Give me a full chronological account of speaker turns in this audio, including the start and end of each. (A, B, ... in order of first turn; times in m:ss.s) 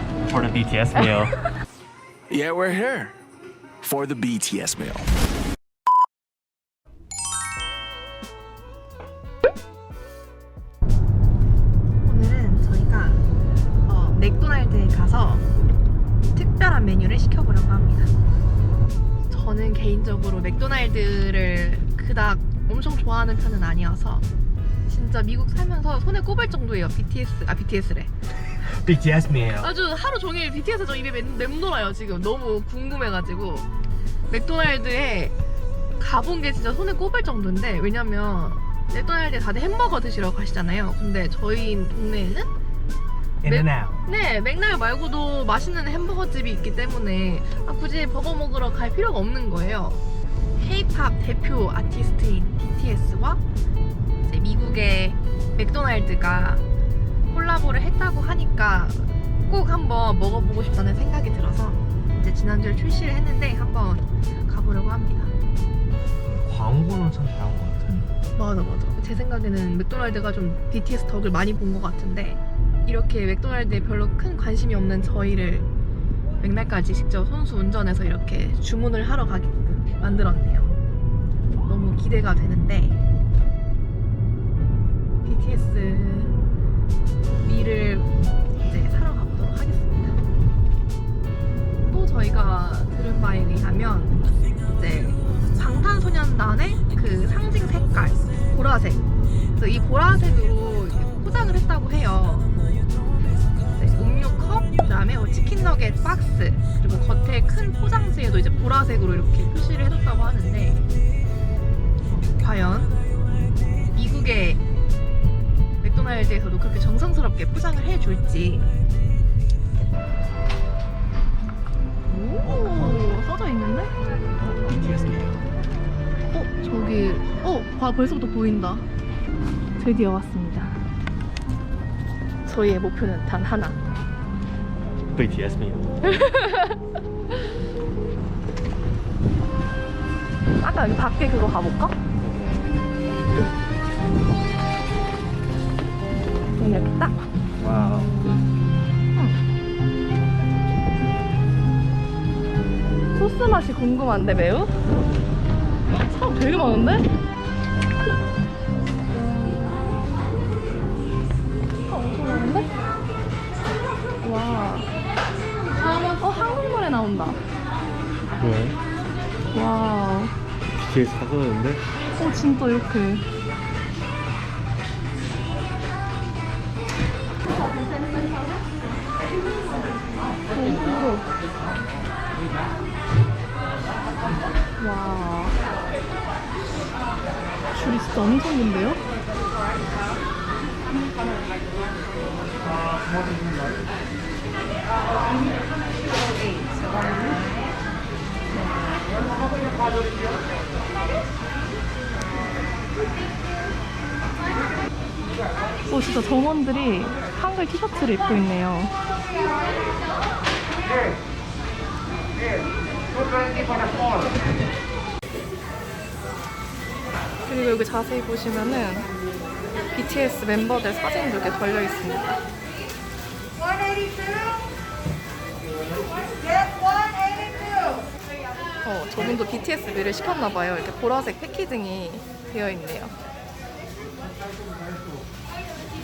0:00.3-0:01.4 A
0:02.3-0:03.1 B
0:03.8-0:05.1 B
0:12.0-0:13.2 C
0:13.9-0:15.4 C
0:16.3-0:18.1 C
0:19.3-0:24.2 C
0:24.9-0:28.1 C
0:28.6-0:29.7 A
0:29.6-0:33.7 C
0:34.3-0:35.4 C
0:36.0-0:42.5 C
0:43.4-0:44.0 A
0:43.5-0:50.0 C
0:50.6-0:53.4 C
0:54.2-0:56.6 C
0:57.3-1:05.3 C
1:06.2-1:08.0 A
1:07.9-1:15.7 C
1:16.4-1:20.8 C
1:21.7-1:23.0 C
1:25.2-1:26.4 C
1:27.4-1:28.1 C
1:28.6-1:30.2 C
1:31.9-1:34.2 C
1:34.7-1:39.0 C
1:39.6-1:42.6 C
1:43.8-1:50.8 C
1:52.1-1:52.9 C
1:53.9-1:54.6 C
1:55.8-1:58.7 C
2:02.1-2:03.9 C
2:02.4-2:03.1 A
2:04.4-2:05.4 A
2:06.3-2:08.8 C
2:09.8-2:10.8 C
2:12.5-2:13.8 C
2:15.1-2:15.9 A
2:16.0-2:16.8 C
2:20.6-2:22.0 C
2:22.1-2:22.8 A
2:26.6-2:27.2 C
2:27.6-2:28.2 A
2:33.2-2:34.8 C
2:36.0-2:37.1 C
2:41.9-2:42.7 C
2:44.2-2:44.9 C
2:46.2-2:47.4 C
2:48.4-2:48.8 A
2:49.5-2:50.3 C
2:50.8-2:51.8 A
2:52.2-2:53.2 C
3:00.5-3:01.3 C
3:04.8-3:05.6 C
3:07.7-3:09.0 C
3:16.4-3:17.4 C
3:25.9-3:28.9 C
3:37.5-3:39.1 C
3:39.9-3:42.4 C
3:48.8-3:53.1 C